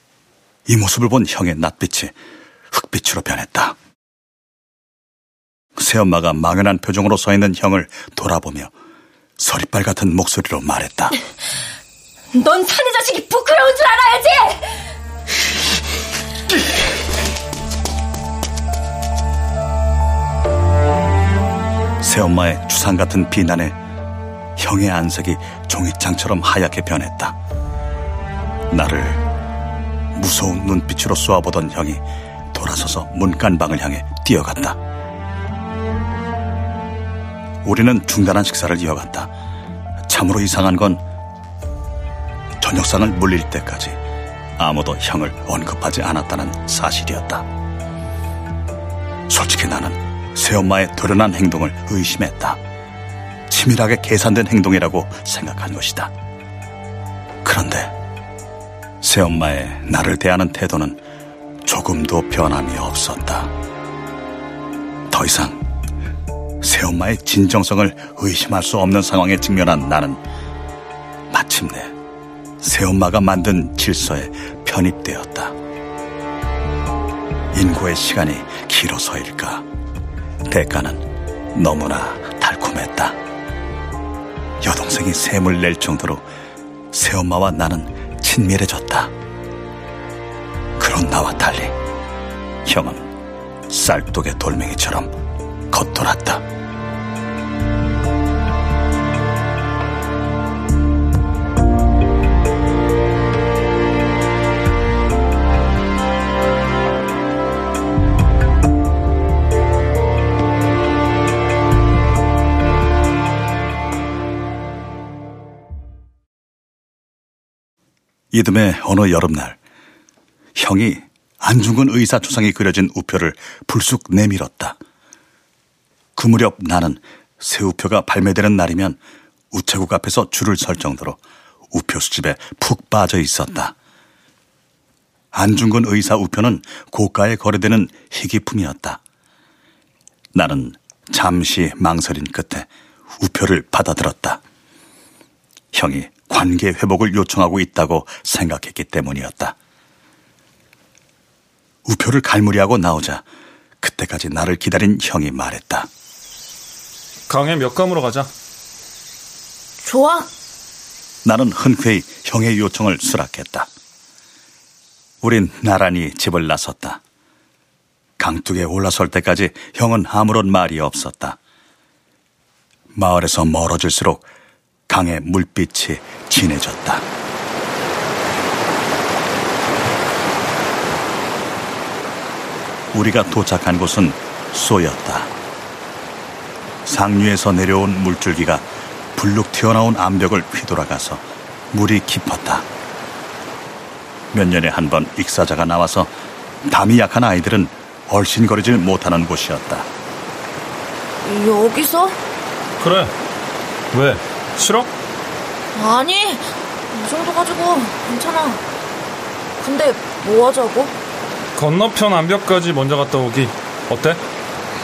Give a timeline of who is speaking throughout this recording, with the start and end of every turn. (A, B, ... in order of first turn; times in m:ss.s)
0:00.7-0:02.1 A
0:02.7-0:03.8 A
0:05.8-0:08.7 A
0:09.4-0:11.1 A
0:12.3-0:14.8 B
0:22.0-0:23.8 A
0:24.6-0:27.4 A
0:28.7-0:29.2 A
0:30.1-0:34.8 A
0:37.6-0:39.3 A
0:40.0-0:41.0 A
0:42.6-0:44.0 A
0:44.6-0:47.4 A
0:49.3-0:52.6 A
0:53.5-0:56.1 A
0:57.4-0:57.9 A
0:59.0-1:01.0 A
1:01.6-1:03.5 A
1:05.1-1:05.6 A
1:06.6-1:10.2 A
1:11.3-1:11.9 A
1:12.6-1:15.5 A
1:17.5-1:19.6 A
1:20.4-1:23.2 A
1:24.6-1:26.2 A
1:26.9-1:29.1 A
1:30.8-1:31.8 A
1:32.6-1:33.1 A
1:33.7-1:35.1 A
1:35.7-1:36.4 A
1:58.3-1:59.6 A
2:00.6-2:04.8 A
2:06.2-2:09.0 A
2:09.5-2:11.2 A
2:11.7-2:13.7 A
2:15.3-2:19.0 A
2:20.3-2:22.7 A
2:23.2-2:24.4 A
2:25.7-2:29.6 A
2:31.8-2:33.2 A
2:33.8-2:35.9 A
2:37.3-2:38.3 C
2:39.8-2:40.3 D
2:41.2-2:43.7 A
2:45.2-2:47.0 A
2:48.2-2:51.4 A
2:52.9-2:54.3 A
2:54.9-2:57.0 A
3:02.9-3:05.3 A
3:06.8-3:08.6 A
3:09.1-3:12.6 A
3:14.3-3:16.1 A
3:16.6-3:19.9 A
3:21.2-3:22.2 D
3:22.8-3:23.1 C
3:23.9-3:24.9 C
3:25.7-3:28.6 D
3:29.6-3:30.9 D
3:31.5-3:34.2 C